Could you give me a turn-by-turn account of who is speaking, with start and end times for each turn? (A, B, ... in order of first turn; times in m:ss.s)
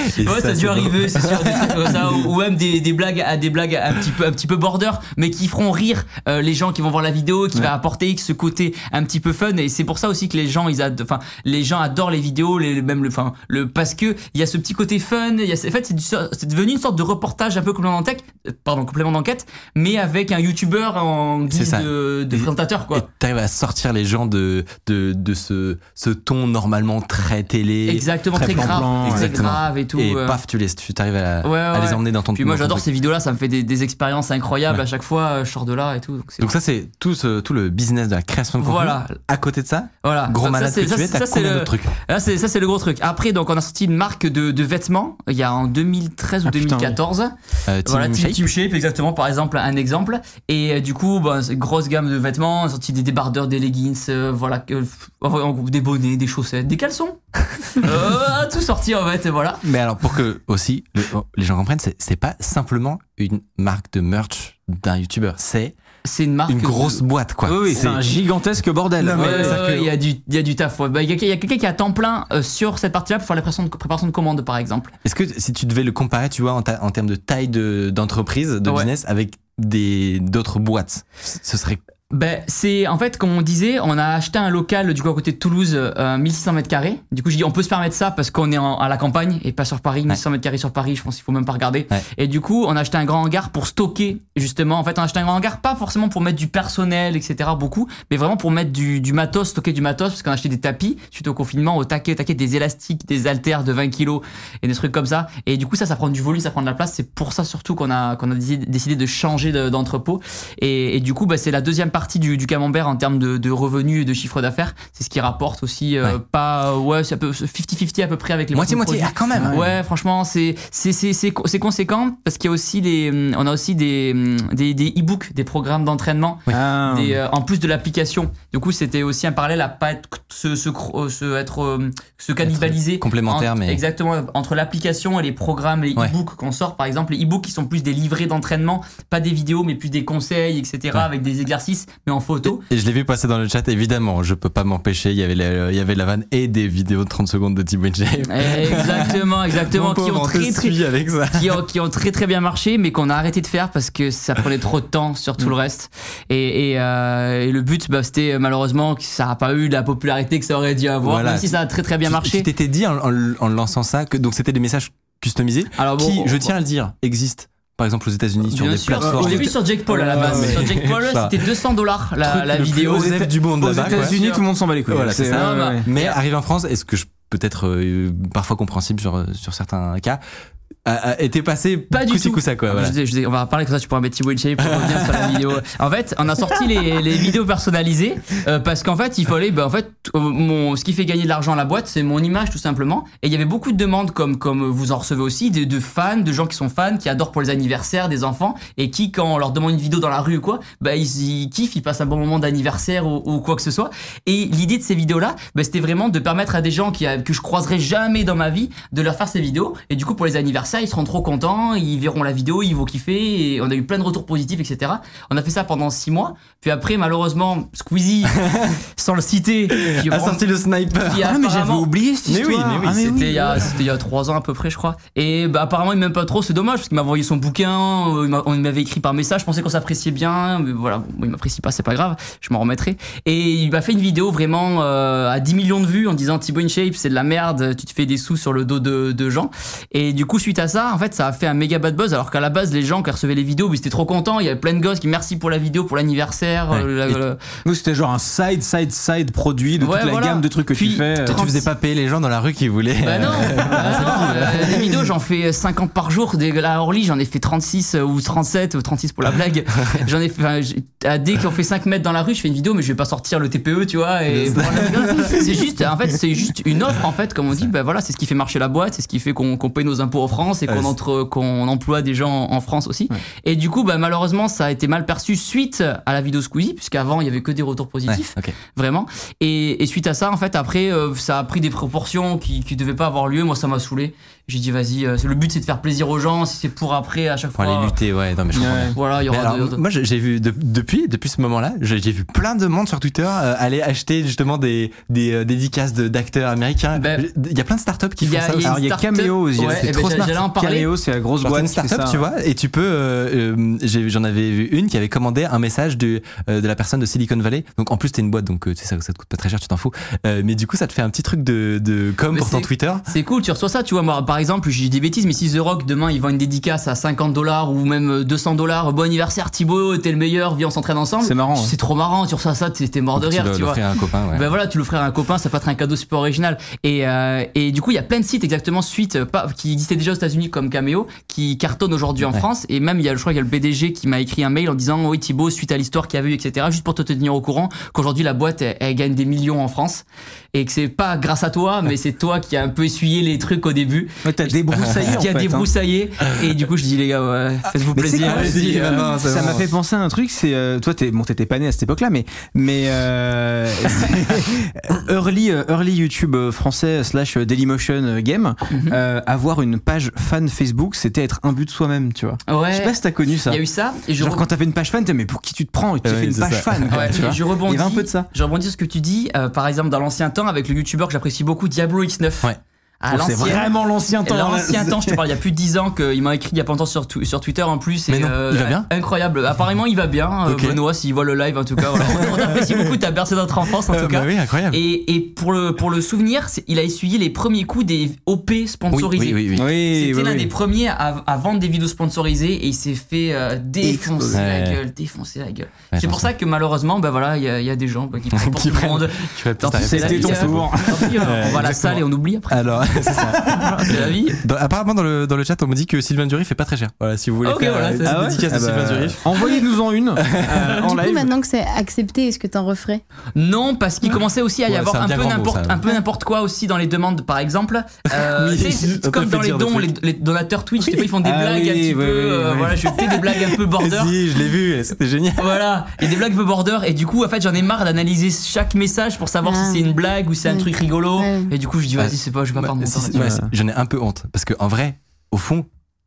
0:00.1-0:01.9 A
0:00.2-0:23.1 B
0:21.5-0:32.9 A
0:27.8-0:30.4 B
0:28.3-0:29.3 C
0:31.4-0:36.5 B
0:36.4-0:42.0 A
0:38.6-0:39.2 B
0:40.0-0:59.6 B
0:46.5-0:47.0 C
0:47.7-0:48.4 A
0:59.6-1:05.8 A
1:06.0-1:07.0 B
1:06.5-1:08.1 A
1:07.4-1:09.6 C
1:09.0-1:09.9 A
1:09.2-1:14.9 B
1:15.0-1:21.8 A
1:22.1-2:22.6 B
1:58.5-1:59.6 A
1:59.3-1:59.7 C
2:06.5-2:07.2 C
2:12.4-2:13.8 A
2:22.4-2:31.6 A
2:28.3-2:30.8 B
2:31.3-2:42.5 B
2:41.0-2:41.5 A
2:42.0-2:51.4 A
2:45.8-2:46.5 B
2:48.5-2:54.4 B
2:49.0-2:50.6 C
2:52.2-2:54.2 A
2:53.0-2:55.9 C
2:54.9-3:00.2 A
2:55.3-2:56.2 B
3:00.8-3:03.0 A
3:01.9-3:40.4 B
3:04.7-3:05.4 A
3:38.4-3:38.8 A
3:39.8-3:41.3 A
3:41.0-3:41.9 B
3:41.2-3:43.8 C
3:42.2-3:43.2 A
3:43.0-4:07.4 B
4:06.7-4:07.2 A
4:07.6-4:11.5 C
4:09.8-4:11.7 B
4:11.2-4:15.1 A
4:13.0-4:48.0 B
4:13.6-4:15.0 C
4:24.3-4:25.6 A
4:30.7-4:31.0 A
4:38.1-4:38.6 A
4:47.6-4:58.8 A
4:48.5-4:49.0 C
4:49.0-4:49.8 B
4:57.0-4:57.2 B
4:58.2-5:00.9 B
4:58.6-5:02.2 C
4:59.7-5:00.3 A
5:01.4-5:13.1 A
5:12.3-5:23.8 B
5:21.2-5:21.8 C
5:23.2-5:24.5 A
5:24.3-5:49.2 B
5:44.2-5:45.7 C
5:44.7-5:45.2 A
5:47.9-6:03.6 C
5:48.1-5:49.7 A
5:58.7-5:59.0 B
6:02.5-6:04.5 B
6:04.2-6:08.3 C
6:06.0-6:07.4 A
6:06.9-6:12.5 B
6:13.0-6:44.4 B
6:13.1-6:15.2 C
6:18.1-6:18.9 A
6:20.5-6:20.8 A
6:22.0-6:22.9 A
6:23.9-6:24.8 A
6:28.9-6:29.6 A
6:29.5-6:30.5 C
6:33.8-6:34.4 C
6:34.3-6:34.8 A
6:35.9-6:36.3 A
6:38.3-6:49.6 A
6:39.7-6:41.6 C
6:47.4-6:48.4 B
6:48.0-6:51.3 C
6:50.2-6:50.7 A
6:50.7-6:53.0 D
6:53.4-7:04.2 B
6:54.7-6:55.8 A
6:58.1-6:59.9 A
7:01.0-7:03.4 C
7:03.8-7:05.6 A
7:05.4-7:13.2 B
7:09.4-7:09.9 D
7:10.5-7:11.5 D
7:12.0-7:15.7 A
7:13.1-7:13.5 C